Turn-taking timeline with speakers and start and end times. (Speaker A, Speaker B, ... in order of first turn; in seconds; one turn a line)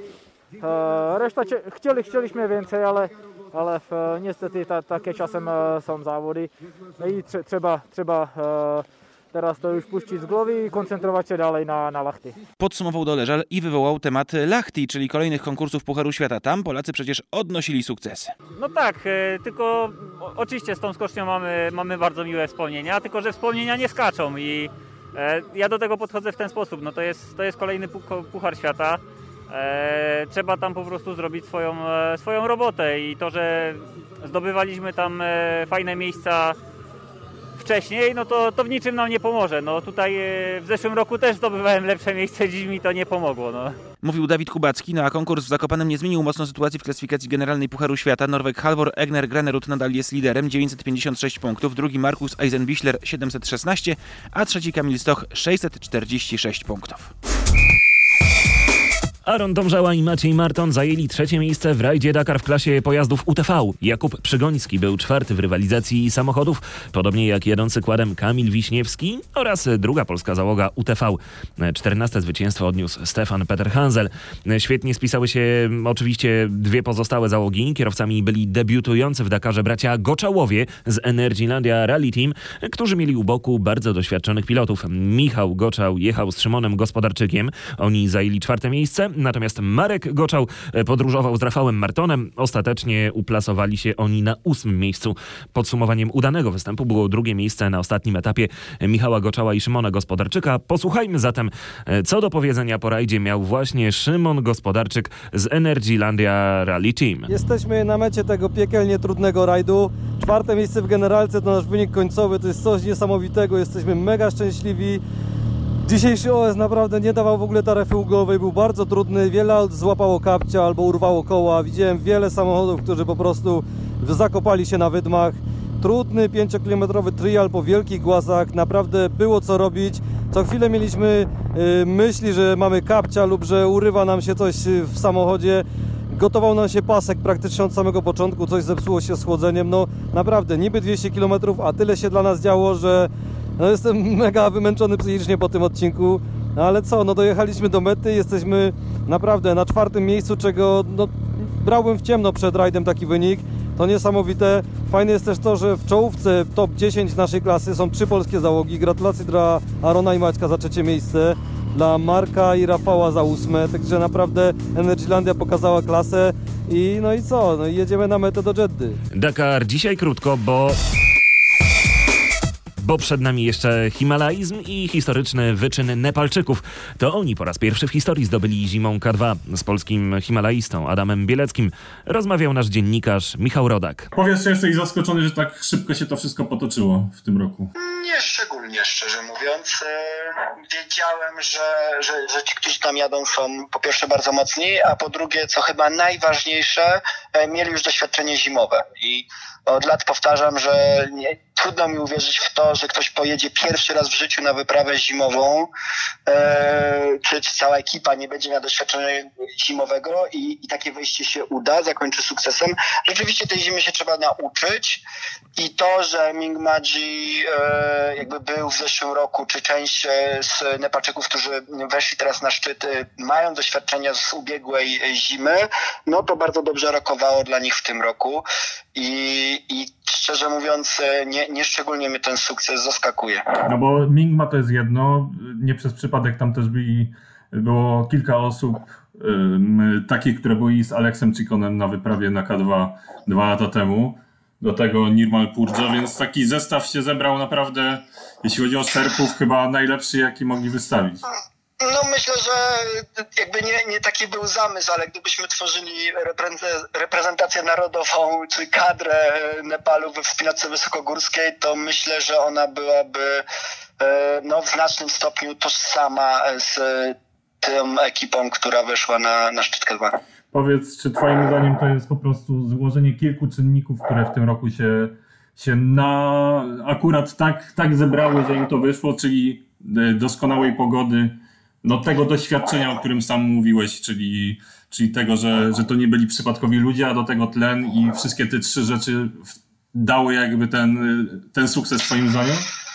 Speaker A: 0.6-12.4
Speaker B: 12.6-18.3
Speaker C: 18.6-36.5
Speaker C: 37.6-43.8
Speaker B: 44.0-57.1
Speaker D: 59.2-107.3
Speaker E: 107.3-115.0
Speaker E: 115.8-169.0
Speaker D: 169.1-170.8
Speaker D: 172.8-184.1
Speaker F: 184.1-187.7
Speaker G: 187.8-205.7
Speaker G: 206.2-215.0
Speaker G: 215.6-233.4
Speaker F: 233.6-251.2
Speaker G: 251.8-263.4
Speaker G: 264.0-270.1
Speaker F: 270.5-292.7